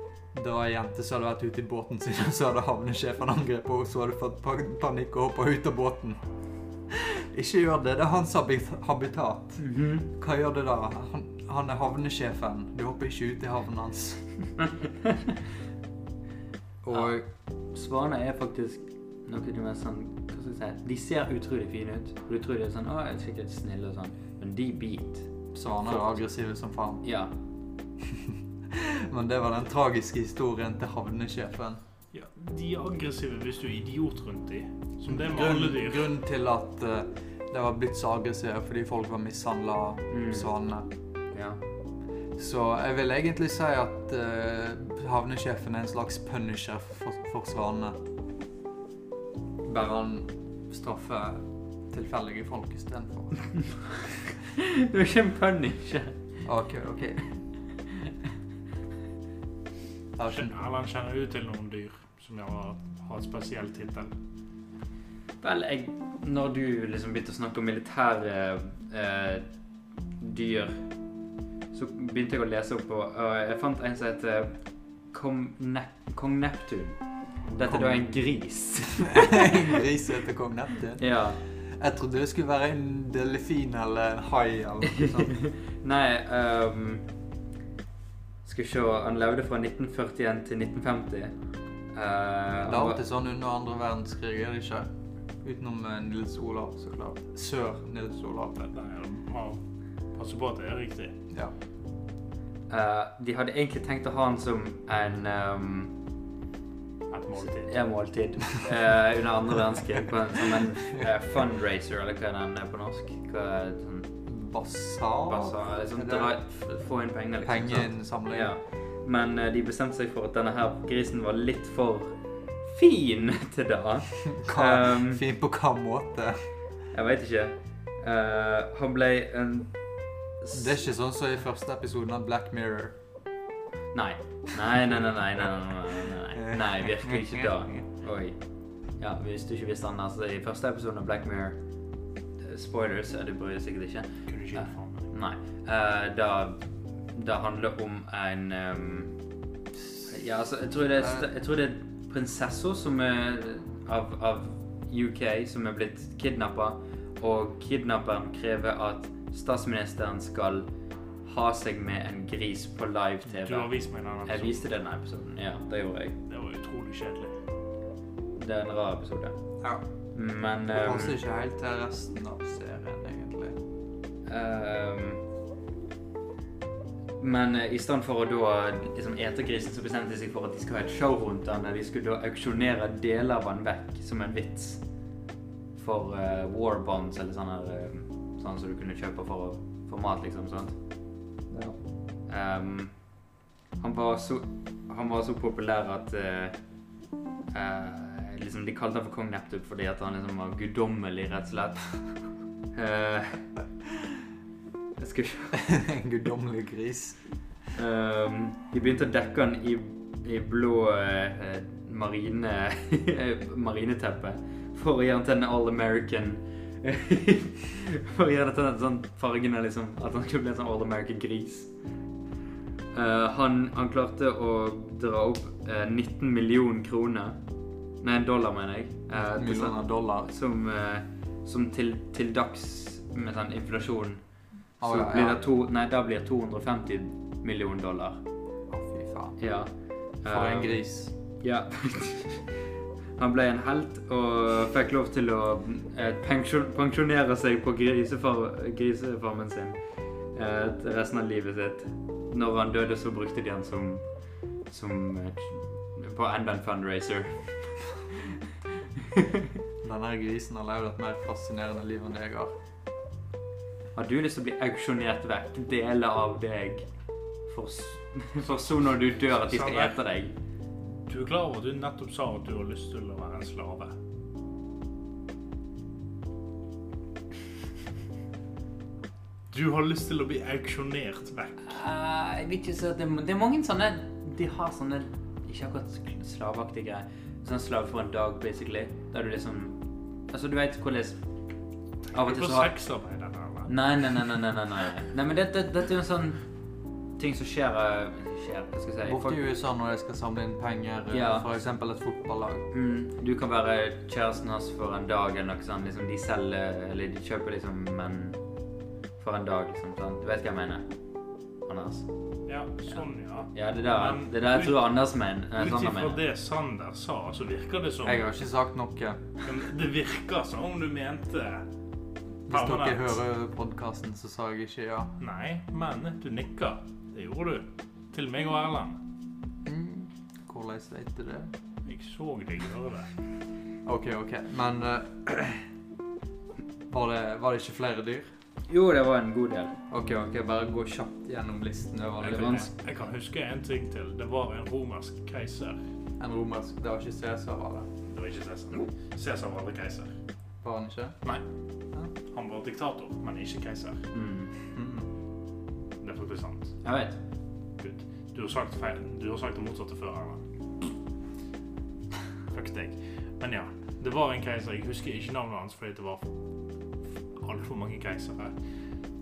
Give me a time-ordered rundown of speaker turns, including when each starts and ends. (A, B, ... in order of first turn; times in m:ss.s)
0:00.3-0:06.2 A
0:06.9-0:14.3 A
0:09.6-0:10.1 B
0:16.8-0:17.2 A
0:17.7-0:25.3 B
0:25.5-0:27.0 A
0:25.9-0:26.2 B
0:27.0-0:27.3 B
0:28.1-0:31.8 A
0:32.1-0:36.1 C
0:35.1-0:40.9 A
0:40.1-0:40.5 B
0:41.3-0:41.6 B
0:42.4-0:48.0 A
0:49.6-0:53.7 A
0:54.5-0:56.2 B
0:56.4-0:57.3 A
1:00.2-1:00.5 A
1:00.3-1:04.1 C
1:05.4-1:09.5 B
1:10.2-1:10.9 B
1:11.7-1:19.7 B
1:17.6-1:18.1 A
1:19.0-1:25.4 A
1:21.0-1:21.4 B
1:25.0-1:27.1 B
1:28.4-1:31.4 B
1:31.9-1:33.0 B
1:32.6-1:34.9 A
1:35.4-1:38.6 A
1:38.6-1:39.6 C
1:40.1-1:41.2 C
1:42.7-1:45.9 B
1:47.1-1:47.8 C
1:47.5-1:54.1 B
1:50.5-1:51.1 A
1:54.3-1:56.3 A
1:55.3-2:05.2 B
1:57.4-1:58.5 A
2:04.2-2:06.5 A
2:06.9-2:09.8 B
2:10.4-2:10.7 B
2:10.5-2:13.0 A
2:13.9-2:18.4 B
2:16.3-2:17.9 A
2:18.9-2:21.6 B
2:22.4-2:26.6 B
2:24.3-2:25.1 C
2:27.1-2:29.2 B
2:30.1-2:40.7 B
2:41.2-2:43.7 B
2:43.3-2:44.7 C
2:44.3-2:46.2 B
2:46.3-2:47.3 C
2:48.4-2:49.4 B
2:50.1-2:51.2 B
2:50.7-2:53.6 A
2:54.3-2:55.2 B
2:57.2-3:04.8 B
3:05.8-3:10.8 B
3:11.5-3:11.8 A
3:12.3-3:13.0 B
3:13.8-3:16.6 B
3:17.5-3:21.9 B
3:22.7-3:23.5 B
3:25.0-3:25.6 B
3:25.5-3:27.2 A
3:27.8-3:41.7 B
3:42.9-3:47.4 B
3:48.0-3:54.2 B
3:49.1-3:50.3 A
3:54.8-3:55.4 A
3:54.8-3:58.2 B
3:58.7-3:59.4 A
3:59.4-4:00.8 B
4:00.3-4:01.1 A
4:01.4-4:02.6 B
4:03.2-4:09.8 B
4:10.3-4:14.1 B
4:14.7-4:17.8 B
4:19.1-4:19.4 B
4:19.8-4:22.5 A
4:24.0-4:26.9 B
4:27.5-4:30.4 B
4:29.1-4:30.0 C
4:31.1-4:33.9 C
4:39.5-4:41.8 C
4:41.7-4:49.8 B
4:50.3-4:51.2 B
4:52.1-4:52.7 B
4:52.1-4:54.2 C
4:53.7-4:56.4 B
4:57.2-4:59.4 B
4:59.0-5:02.7 A
5:01.1-5:01.5 B
5:02.7-5:08.4 B
5:09.2-5:10.9 B
5:11.7-5:12.1 B
5:12.5-5:14.9 C
5:13.5-5:16.2 B
5:15.6-5:18.3 C
5:18.0-5:19.4 A
5:19.4-5:21.7 C
5:22.5-5:25.1 A
5:22.5-5:23.2 C
5:25.2-5:29.0 C
5:29.6-5:31.5 A
5:31.8-5:33.1 C
5:33.8-5:35.7 A
5:36.9-5:38.3 A
5:38.7-5:39.8 B
5:39.9-5:42.7 A
5:42.2-5:45.8 C
5:42.3-5:42.7 B
5:46.2-5:47.9 A
5:48.0-5:50.1 C
5:50.6-5:51.2 A
5:52.3-5:54.1 C
5:54.1-5:54.5 B
5:54.7-5:55.1 A
5:56.0-5:56.8 C
5:56.8-5:57.2 B
5:57.8-6:00.4 C
6:02.5-6:06.3 C
6:07.4-6:08.6 C